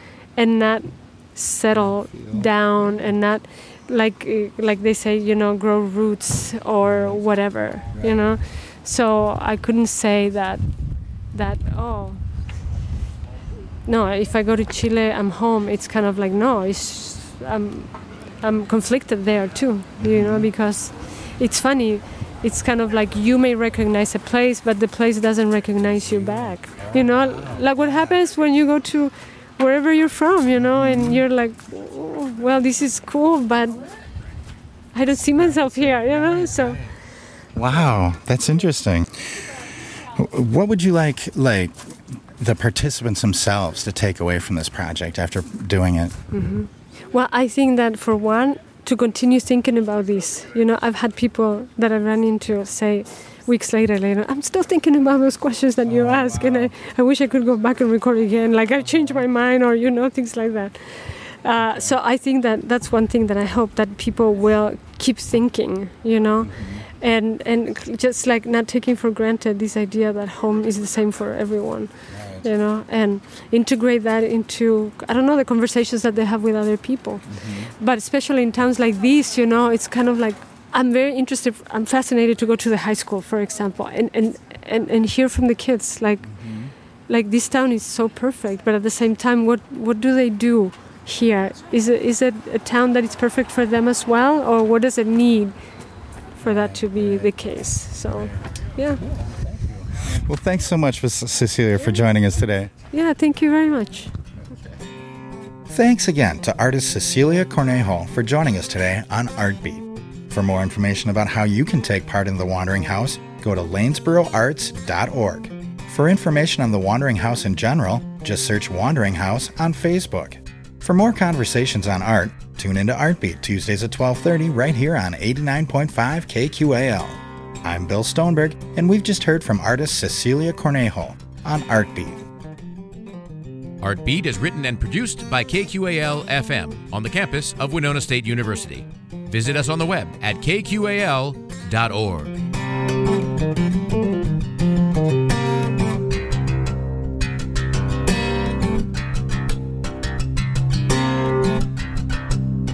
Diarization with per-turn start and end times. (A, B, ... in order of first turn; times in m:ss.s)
0:00.4-0:10.6 A
0:02.1-0:02.5 B
0:06.9-0:07.1 B
0:08.0-0:08.3 B
0:11.3-0:12.2 A
0:13.9-0:33.8 A
0:20.0-0:20.5 B
0:26.9-0:27.6 B
0:30.7-0:31.2 B
0:34.9-0:36.8 A
0:35.4-0:36.9 B
0:37.6-0:39.1 B
0:40.2-0:41.8 B
0:42.4-0:46.1 B
0:46.3-1:26.3 A
0:55.9-0:56.7 B
1:01.6-1:02.0 B
1:06.4-1:06.8 B
1:12.1-1:12.4 B
1:17.3-1:17.7 B
1:26.3-1:26.7 B
1:27.1-1:35.6 A
1:36.4-1:39.0 A
1:36.4-1:37.3 B
1:39.0-1:42.7 B
1:42.9-1:44.1 A
1:45.7-2:12.2 B
2:13.8-2:22.3 C